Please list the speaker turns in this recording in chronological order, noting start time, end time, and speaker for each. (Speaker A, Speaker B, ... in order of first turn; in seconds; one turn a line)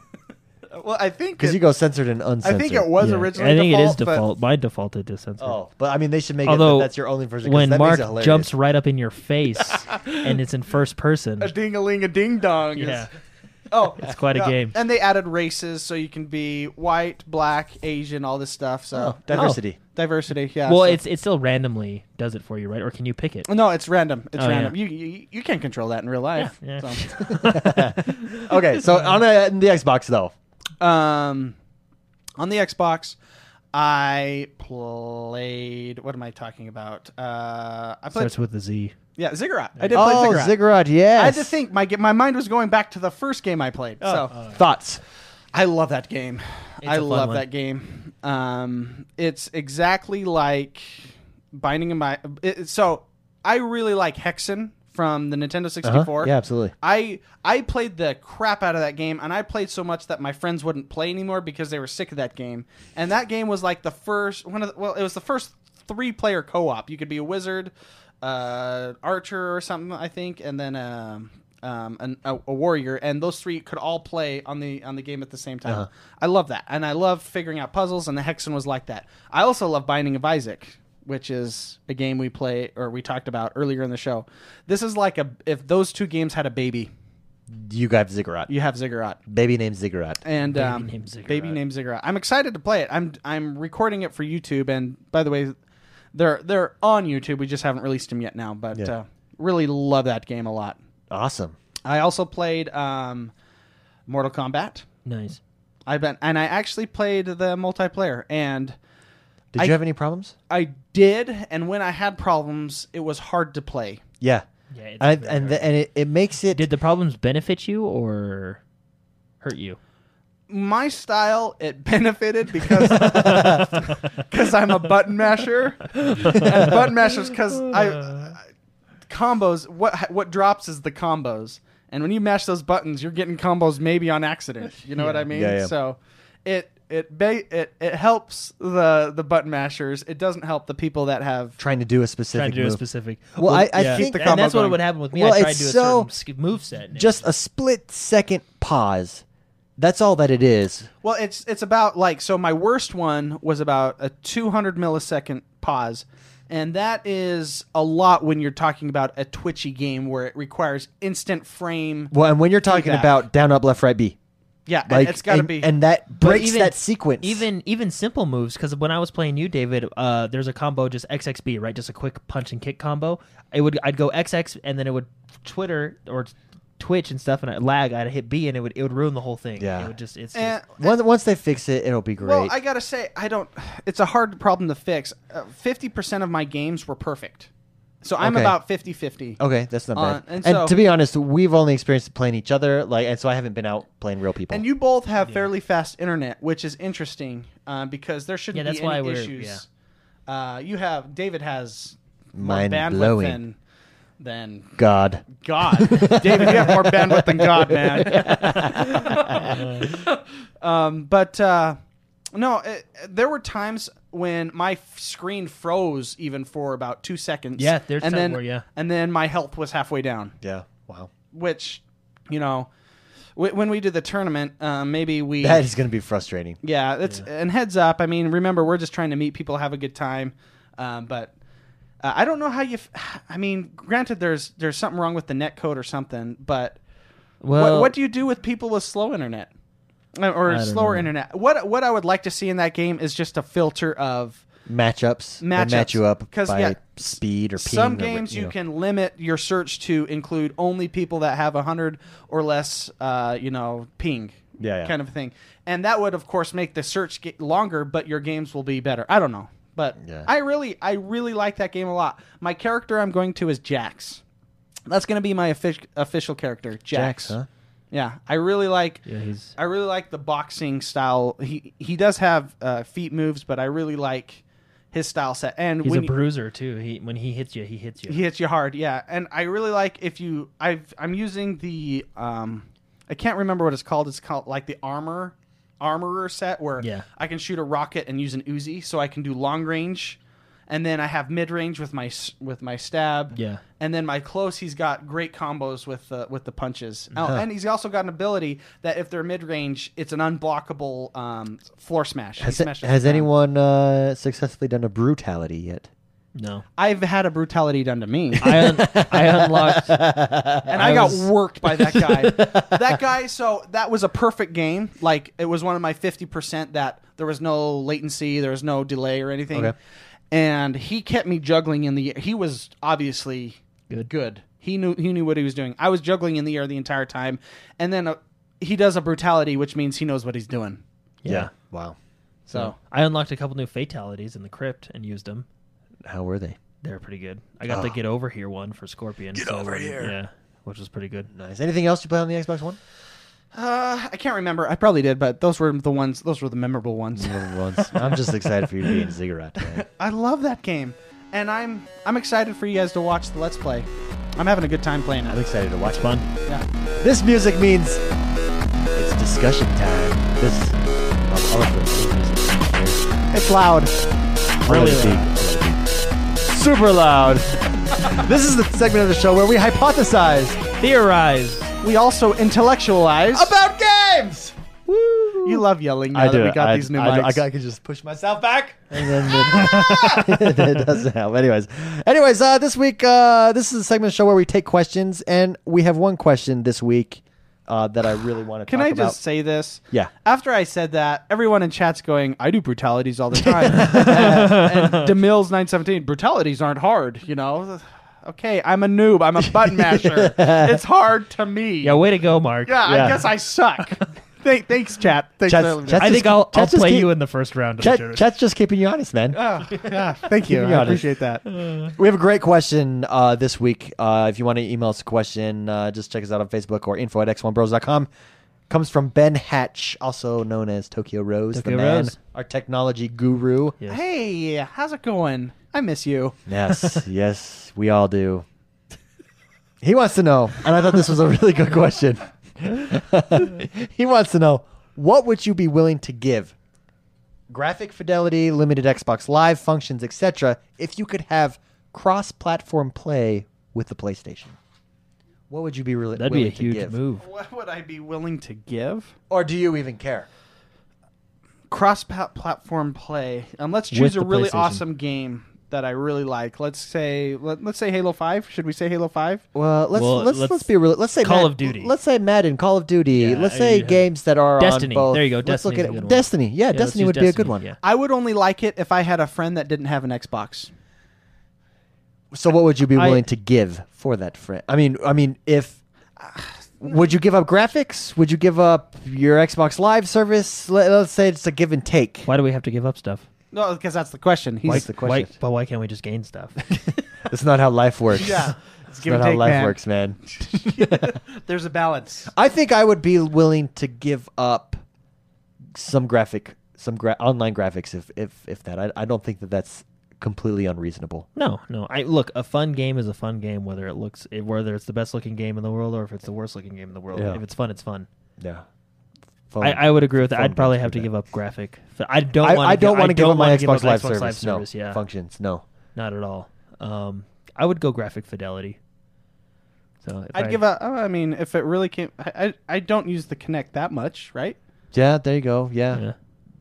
Speaker A: 0.7-1.6
Speaker B: 1.4-2.9
Speaker A: 2.4-4.2
Speaker C: 3.0-5.6
Speaker B: 5.4-8.5
Speaker C: 6.5-11.5
Speaker A: 11.4-13.1
Speaker C: 12.8-13.1
Speaker A: 13.7-21.0
Speaker C: 13.9-14.8
Speaker B: 18.9-19.8
Speaker C: 19.3-19.6
Speaker C: 20.7-23.5
Speaker A: 23.5-27.1
Speaker C: 24.4-24.8
Speaker C: 26.4-29.2
Speaker B: 27.3-30.3
Speaker A: 30.8-31.6
Speaker A: 32.4-33.2
Speaker A: 33.7-38.3
Speaker C: 38.1-39.0
Speaker A: 39.2-40.6
Speaker B: 39.9-41.6
Speaker A: 41.1-44.4
Speaker B: 44.0-45.0
Speaker C: 44.3-44.6
Speaker A: 45.5-67.7
Speaker C: 46.8-47.5
Speaker B: 55.8-56.7
Speaker A: 68.2-86.9
Speaker B: 87.5-88.5
Speaker A: 88.5-89.2
Speaker B: 89.3-90.2
Speaker A: 90.2-95.5
Speaker C: 90.5-91.6
Speaker A: 96.1-100.8
Speaker B: 101.1-101.6
Speaker A: 101.8-103.3
Speaker A: 104.1-104.9
Speaker C: 105.0-105.4
Speaker A: 105.9-108.8
Speaker B: 109.5-110.3
Speaker A: 110.5-114.0
Speaker B: 114.2-114.5
Speaker C: 114.7-115.7
Speaker B: 115.0-116.7
Speaker C: 116.5-118.6
Speaker C: 119.4-119.8
Speaker A: 120.5-128.4
Speaker C: 123.0-123.9
Speaker B: 123.2-123.6
Speaker C: 126.0-126.7
Speaker C: 128.0-128.3
Speaker A: 129.1-141.6
Speaker C: 135.0-135.3
Speaker B: 135.3-135.7
Speaker B: 141.6-142.8
Speaker C: 142.3-147.2
Speaker B: 143.4-144.4
Speaker A: 143.8-144.8
Speaker B: 145.1-146.1
Speaker B: 146.9-149.2
Speaker B: 149.8-150.9
Speaker A: 151.0-162.1
Speaker B: 162.1-164.2
Speaker A: 162.7-163.1
Speaker A: 164.7-165.7
Speaker B: 164.9-167.5
Speaker C: 166.2-180.6
Speaker B: 179.6-179.9
Speaker A: 180.3-181.0
Speaker B: 180.8-182.5
Speaker A: 182.2-187.5
Speaker A: 188.0-189.4
Speaker B: 188.2-188.6
Speaker B: 189.4-194.6
Speaker A: 189.9-190.7
Speaker A: 194.5-199.7
Speaker C: 198.5-199.6
Speaker A: 200.3-203.6
Speaker B: 202.3-203.4
Speaker A: 204.2-204.8
Speaker B: 204.8-209.6
Speaker A: 205.3-210.1
Speaker C: 208.1-209.8
Speaker A: 210.6-211.8
Speaker A: 212.3-220.3
Speaker C: 217.6-218.7
Speaker B: 220.4-221.1
Speaker A: 221.3-222.7
Speaker A: 223.4-225.7
Speaker B: 225.4-226.6
Speaker A: 226.6-231.3
Speaker A: 232.0-236.8
Speaker C: 237.4-237.9
Speaker A: 237.6-239.5
Speaker A: 240.2-244.4
Speaker C: 240.5-241.1
Speaker B: 244.7-248.5
Speaker A: 245.4-247.0
Speaker A: 247.6-264.2
Speaker B: 254.6-254.9
Speaker B: 260.0-260.3
Speaker A: 264.9-267.4
Speaker B: 266.9-267.5
Speaker A: 267.9-276.1
Speaker C: 269.1-269.5
Speaker C: 275.8-278.2
Speaker A: 278.1-290.2
Speaker C: 286.8-287.1
Speaker A: 290.7-303.3
Speaker C: 293.3-293.6
Speaker B: 297.2-297.4
Speaker B: 302.4-305.9
Speaker C: 306.4-306.6
Speaker A: 306.8-308.7
Speaker C: 308.4-310.0
Speaker B: 308.5-312.9
Speaker A: 310.7-319.8
Speaker A: 320.3-330.8
Speaker C: 331.2-331.5
Speaker B: 331.3-332.0
Speaker A: 332.5-332.8
Speaker C: 332.5-335.5
Speaker B: 336.0-336.6
Speaker C: 336.8-341.3
Speaker B: 337.7-337.9
Speaker B: 339.4-340.1
Speaker B: 341.3-342.8
Speaker A: 343.5-348.3
Speaker B: 347.2-349.9
Speaker A: 349.6-355.4
Speaker B: 355.3-356.2
Speaker C: 355.9-356.3
Speaker B: 357.0-358.0
Speaker B: 358.9-363.1
Speaker A: 363.3-363.9
Speaker B: 364.6-365.9
Speaker C: 364.7-365.3
Speaker B: 366.4-370.6
Speaker C: 370.8-371.7
Speaker A: 371.8-373.5
Speaker B: 373.3-375.5
Speaker C: 375.0-375.4
Speaker A: 375.4-377.4
Speaker B: 376.1-389.2
Speaker C: 379.5-380.2
Speaker A: 388.7-402.0
Speaker B: 393.5-394.6
Speaker C: 393.8-395.1
Speaker B: 399.4-400.8
Speaker C: 401.8-403.0
Speaker A: 402.6-406.2
Speaker B: 402.8-403.2
Speaker B: 405.5-407.1
Speaker C: 406.0-408.2
Speaker B: 407.8-409.8
Speaker A: 409.3-411.4
Speaker B: 410.3-411.1
Speaker C: 411.5-411.9
Speaker B: 411.9-418.1
Speaker B: 418.7-423.8
Speaker C: 421.5-422.2
Speaker A: 423.9-426.4
Speaker B: 426.5-428.4
Speaker B: 429.8-436.6
Speaker B: 437.5-444.6
Speaker B: 445.5-447.0
Speaker C: 446.2-447.2
Speaker A: 447.2-449.1
Speaker B: 449.3-450.3
Speaker A: 451.7-459.4
Speaker C: 453.9-454.8
Speaker B: 459.5-467.7
Speaker C: 459.9-461.9
Speaker C: 463.1-464.1
Speaker C: 464.6-467.8
Speaker A: 467.8-470.7
Speaker B: 472.3-475.8
Speaker C: 472.9-473.2
Speaker B: 476.8-482.3
Speaker C: 482.3-483.3
Speaker A: 483.5-484.9
Speaker B: 484.7-485.3
Speaker C: 484.7-487.0
Speaker B: 487.3-491.1
Speaker A: 488.2-492.3
Speaker B: 492.3-494.8
Speaker B: 495.7-501.3
Speaker C: 501.4-508.1
Speaker B: 507.1-507.4
Speaker B: 508.4-508.6
Speaker B: 509.5-511.1
Speaker C: 509.6-515.0
Speaker B: 512.4-515.6
Speaker C: 516.0-518.8
Speaker C: 520.0-520.6
Speaker A: 520.3-524.6
Speaker B: 524.9-526.0